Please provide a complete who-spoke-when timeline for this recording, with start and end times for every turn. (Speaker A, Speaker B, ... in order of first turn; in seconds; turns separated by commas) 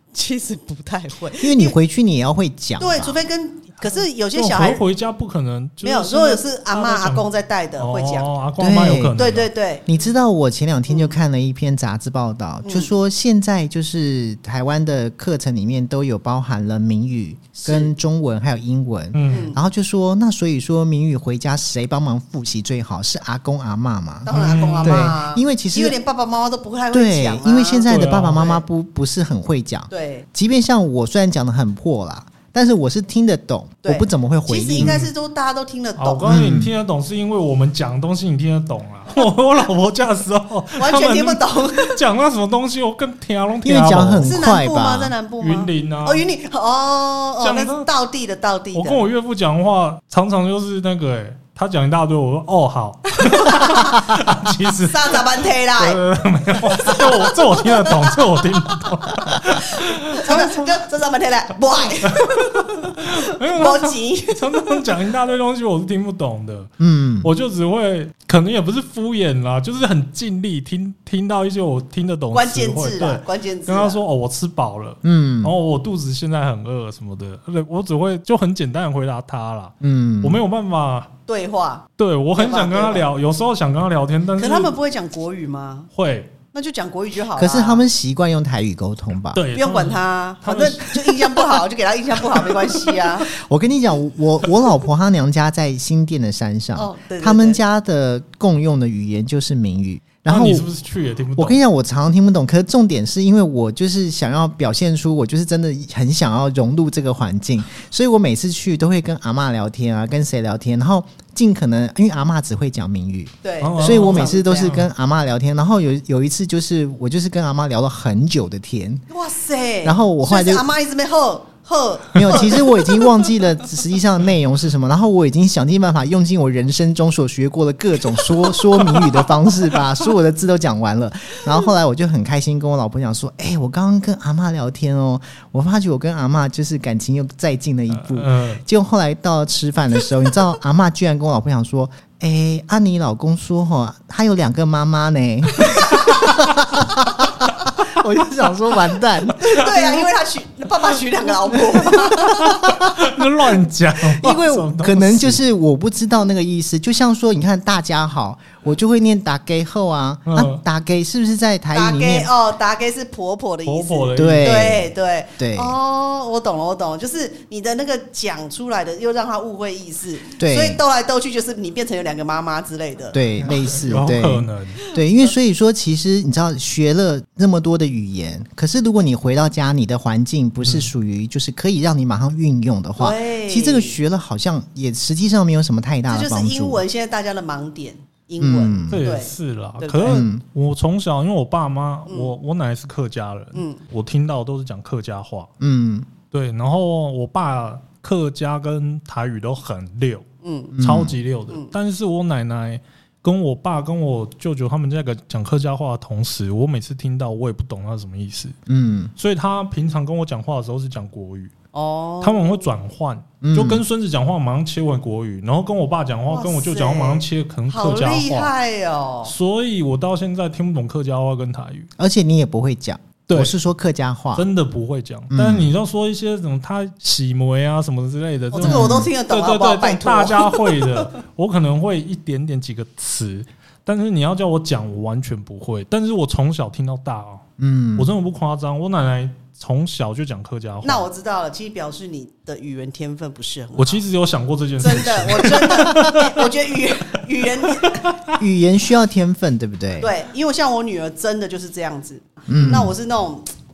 Speaker A: 0.1-1.8, Speaker B: 1.4-3.2, Speaker A: 2.8-4.8, Speaker C: 3.8-7.2, Speaker A: 5.8-8.3, Speaker C: 7.8-9.5, Speaker B: 8.6-9.2, Speaker A: 9.2-9.9, Speaker B: 9.9-26.0, Speaker A: 10.9-11.2, Speaker A: 12.6-12.9, Speaker A: 17.5-17.9, Speaker C: 19.1-19.5, Speaker A: 19.3-19.6, Speaker A: 24.2-28.6, Speaker C: 24.3-25.1, Speaker B: 26.9-35.0, Speaker C: 27.9-28.6, Speaker A: 29.9-30.2, Speaker A: 33.8-36.6, Speaker C: 34.8-35.1, Speaker C: 36.0-44.4, Speaker B: 36.2-36.7, Speaker A: 40.8-42.0, Speaker B: 43.6-45.1, Speaker A: 44.2-49.0, Speaker C: 45.4-46.2, Speaker C: 47.4-47.9, Speaker C: 48.7-60.7, Speaker A: 53.1-54.1, Speaker A: 54.8-56.0, Speaker A: 56.6-58.2, Speaker A: 58.8-64.8, Speaker C: 62.1-81.1, Speaker B: 66.8-67.3, Speaker A: 72.3-74.0, Speaker B: 75.0-75.5, Speaker B: 79.8-80.4, Speaker A: 81.3-83.0, Speaker C: 82.0-84.8, Speaker A: 84.4-85.9, Speaker C: 85.9-86.3, Speaker A: 86.5-87.8, Speaker B: 87.3-89.4, Speaker C: 89.3-91.6, Speaker A: 89.5-93.3, Speaker B: 93.3-100.7, Speaker A: 96.8-97.6, Speaker C: 100.2-101.6, Speaker B: 101.3-119.0, Speaker A: 113.4-114.8, Speaker C: 113.6-114.9, Speaker A: 119.1-123.3, Speaker B: 119.8-120.7, Speaker B: 122.1-149.6, Speaker C: 137.9-138.6, Speaker A: 145.6-146.3, Speaker A: 149.4-152.7, Speaker C: 149.4-150.0, Speaker C: 151.9-155.4, Speaker B: 152.7-153.2, Speaker B: 154.0-162.3, Speaker C: 160.2-160.6, Speaker A: 161.7-173.2, Speaker C: 163.7-164.6, Speaker B: 164.1-165.8, Speaker B: 170.4-170.8, Speaker B: 173.1-186.8, Speaker C: 173.4-174.8, Speaker C: 180.6-180.9, Speaker A: 183.0-184.0, Speaker A: 186.1-190.3, Speaker B: 188.4-189.0, Speaker C: 188.9-195.5, Speaker B: 190.0-190.4, Speaker A: 192.1-192.3, Speaker A: 193.5-193.8, Speaker B: 195.6-196.1, Speaker C: 196.3-200.2, Speaker A: 200.4-200.8, Speaker B: 200.8-201.2, Speaker C: 200.8-208.5, Speaker B: 208.7-209.1, Speaker C: 209.2-211.5, Speaker A: 211.7-212.7, Speaker C: 212.2-218.5, Speaker B: 213.4-213.8, Speaker A: 216.3-219.3, Speaker C: 219.2-221.9, Speaker B: 222.0-224.4, Speaker C: 223.3-223.6, Speaker C: 224.3-241.1, Speaker B: 225.3-225.7, Speaker A: 228.5-231.1, Speaker B: 228.6-229.1, Speaker B: 237.6-238.1, Speaker A: 240.8-244.0, Speaker C: 243.8-246.5, Speaker A: 244.8-248.2, Speaker C: 247.8-248.3, Speaker B: 248.4-250.1, Speaker A: 250.0-253.5, Speaker B: 252.5-252.9